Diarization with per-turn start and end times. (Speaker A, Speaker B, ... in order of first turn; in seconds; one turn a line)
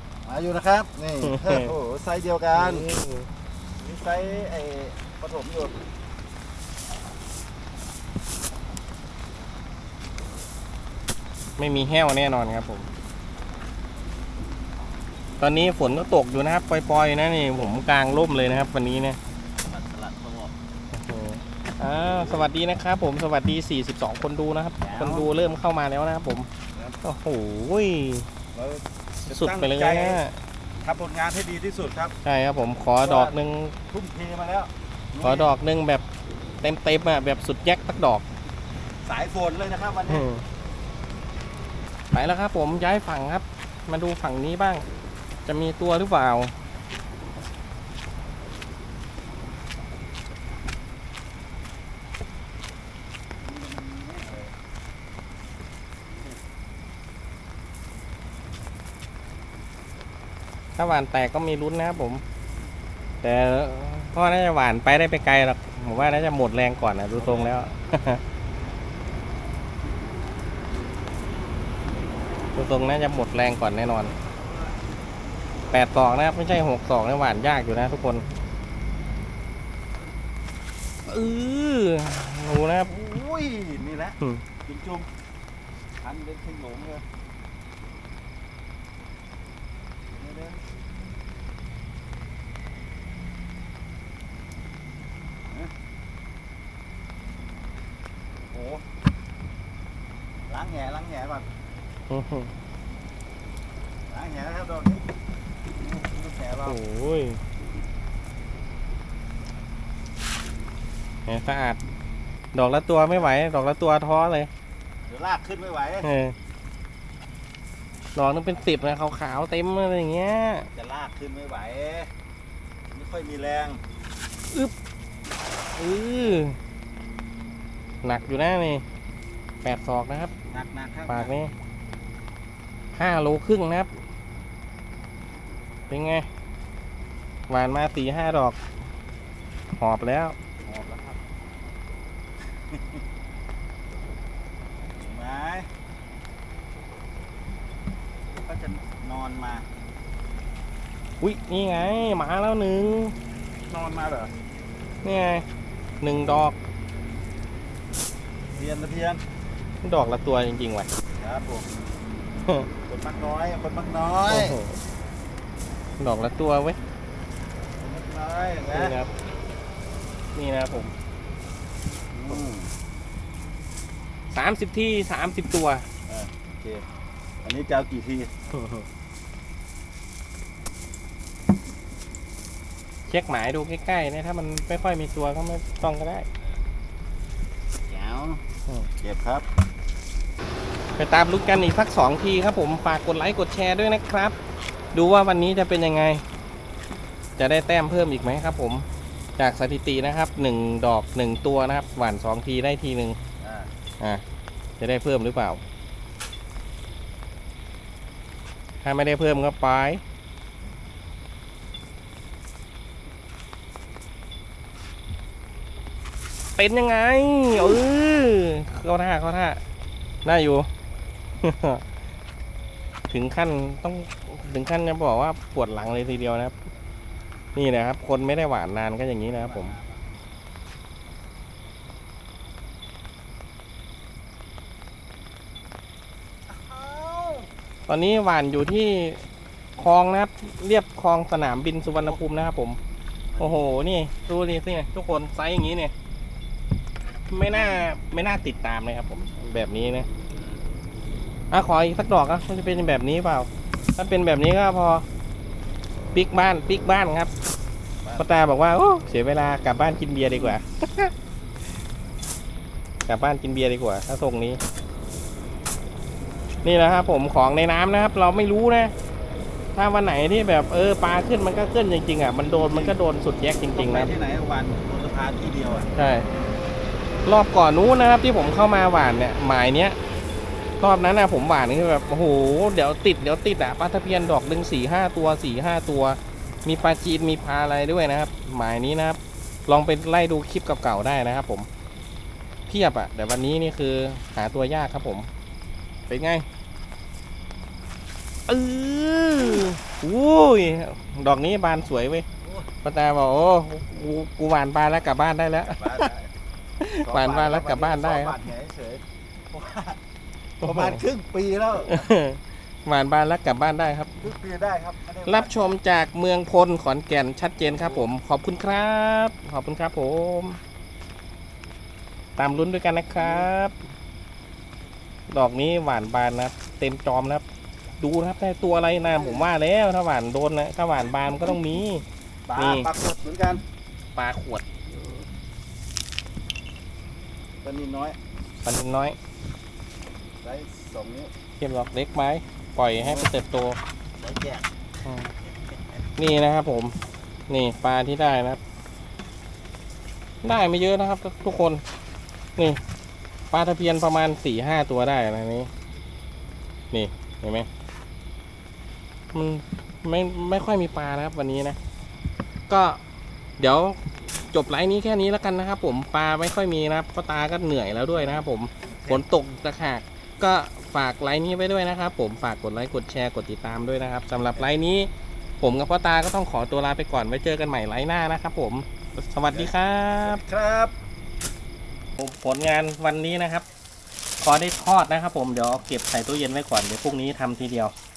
Speaker A: 0.2-2.9
Speaker B: 1.2-1.7
Speaker B: 2.5-3.3
Speaker A: 3.8-5.8
Speaker B: 11.6-12.9
Speaker B: 15.4-19.2
Speaker A: 19.6-20.5
Speaker B: 20.9-26.5
Speaker A: 22.1-22.5
Speaker A: 24.8-25.3
Speaker A: 26.7-27.0
Speaker B: 27.0-28.3
Speaker A: 28.5-30.2
Speaker B: 29.2-30.4
Speaker A: 30.8-32.1
Speaker B: 32.2-33.7
Speaker A: 32.9-33.4
Speaker A: 33.9-35.5
Speaker B: 35.2-36.0
Speaker B: 36.6-38.2
Speaker A: 39.0-40.3
Speaker B: 40.1-40.4
Speaker B: 42.1-44.9
Speaker B: 45.5-46.5
Speaker A: 53.4-54.5
Speaker B: 60.8-62.2
Speaker B: 63.2-68.2
Speaker A: 67.2-67.7
Speaker B: 72.5-74.1
Speaker A: 74.3-74.7
Speaker B: 75.7-78.2
Speaker B: 81.1-82.9
Speaker A: 82.9-85.1
Speaker A: 86.0-87.0
Speaker A: 90.1-90.6
Speaker A: 98.5-98.8
Speaker A: 100.5-101.5
Speaker B: 102.1-102.5
Speaker A: 104.1-105.1
Speaker A: 105.8-106.8
Speaker B: 106.6-107.4
Speaker B: 111.3-111.8
Speaker B: 112.5-114.5
Speaker A: 115.1-116.1
Speaker B: 116.0-116.3
Speaker B: 118.1-120.7
Speaker A: 120.7-122.1
Speaker A: 122.9-123.8
Speaker B: 125.8-126.6
Speaker B: 128.0-128.8
Speaker B: 129.6-130.3
Speaker A: 130.5-131.4
Speaker B: 131.1-131.5
Speaker B: 132.9-133.9
Speaker B: 135.9-136.3
Speaker B: 137.5-138.6
Speaker B: 139.8-140.3
Speaker A: 140.6-141.2
Speaker A: 142.6-143.0
Speaker A: 144.9-145.7
Speaker A: 148.3-149.7
Speaker B: 151.2-153.1
Speaker A: 153.7-154.3
Speaker B: 155.0-155.4
Speaker B: 156.0-156.6
Speaker A: 158.6-159.2
Speaker B: 159.8-160.9
Speaker A: 161.2-161.7
Speaker A: 162.9-164.6
Speaker B: 164.3-164.8
Speaker B: 166.0-166.8
Speaker A: 167.8-169.0
Speaker B: 168.7-169.1
Speaker B: 170.3-170.9
Speaker A: 172.1-172.7
Speaker B: 174.3-175.8
Speaker A: 176.1-176.9
Speaker A: 177.4-178.3
Speaker B: 178.5-178.9
Speaker B: 183.1-186.3
Speaker A: 187.9-188.4
Speaker A: 189.0-189.4
Speaker B: 191.0-194.3
Speaker B: 194.9-196.2
Speaker B: 197.4-198.9
Speaker B: 199.4-203.2
Speaker A: 203.4-203.7
Speaker B: 204.8-205.6
Speaker B: 208.8-210.0
Speaker B: 216.6-219.6
Speaker B: 220.2-220.7
Speaker B: 221.4-221.8
Speaker B: 223.1-226.6
Speaker B: 227.6-229.7
Speaker A: 229.3-230.1
Speaker A: 236.5-237.5
Speaker B: 237.9-239.2
Speaker B: 239.8-242.8
Speaker A: 243.3-243.7
Speaker B: 243.4-245.9
Speaker B: 247.3-250.1
Speaker A: 247.5-247.9
Speaker B: 251.5-255.1
Speaker B: 256.1-257.3
Speaker A: 258.0-258.4
Speaker B: 258.2-261.1
Speaker B: 263.1-264.6
Speaker B: 266.6-268.9
Speaker B: 269.7-274.1
Speaker A: 272.6-273.0
Speaker A: 273.7-275.9
Speaker B: 275.9-276.2
Speaker B: 277.2-280.0
Speaker B: 280.8-291.7
Speaker B: 292.7-295.3
Speaker B: 296.1-296.4
Speaker B: 298.5-302.2
Speaker A: 302.4-302.7
Speaker B: 302.8-306.1
Speaker A: 305.6-306.3
Speaker B: 306.8-308.4
Speaker A: 307.0-310.0
Speaker B: 310.6-311.0
Speaker A: 310.6-312.1
Speaker B: 311.9-314.1
Speaker A: 314.2-315.8
Speaker B: 315.2-320.6
Speaker A: 317.6-318.1
Speaker B: 322.4-323.7
Speaker A: 323.1-323.5
Speaker B: 325.3-327.4
Speaker B: 328.0-332.9
Speaker A: 329.1-329.5
Speaker A: 332.5-333.6
Speaker B: 334.1-334.7
Speaker A: 337.6-338.2
Speaker B: 338.6-339.2
Speaker A: 340.4-341.3
Speaker B: 341.6-343.8
Speaker A: 342.9-343.3
Speaker A: 344.2-344.7
Speaker B: 346.2-346.9
Speaker B: 347.5-348.6
Speaker B: 350.4-351.8
Speaker B: 353.5-355.7
Speaker B: 356.9-357.7
Speaker B: 359.3-361.8
Speaker B: 362.7-363.0
Speaker B: 363.6-364.0
Speaker B: 364.5-380.4
Speaker A: 368.1-369.5
Speaker A: 379.5-380.9
Speaker B: 382.2-383.6
Speaker B: 384.4-387.9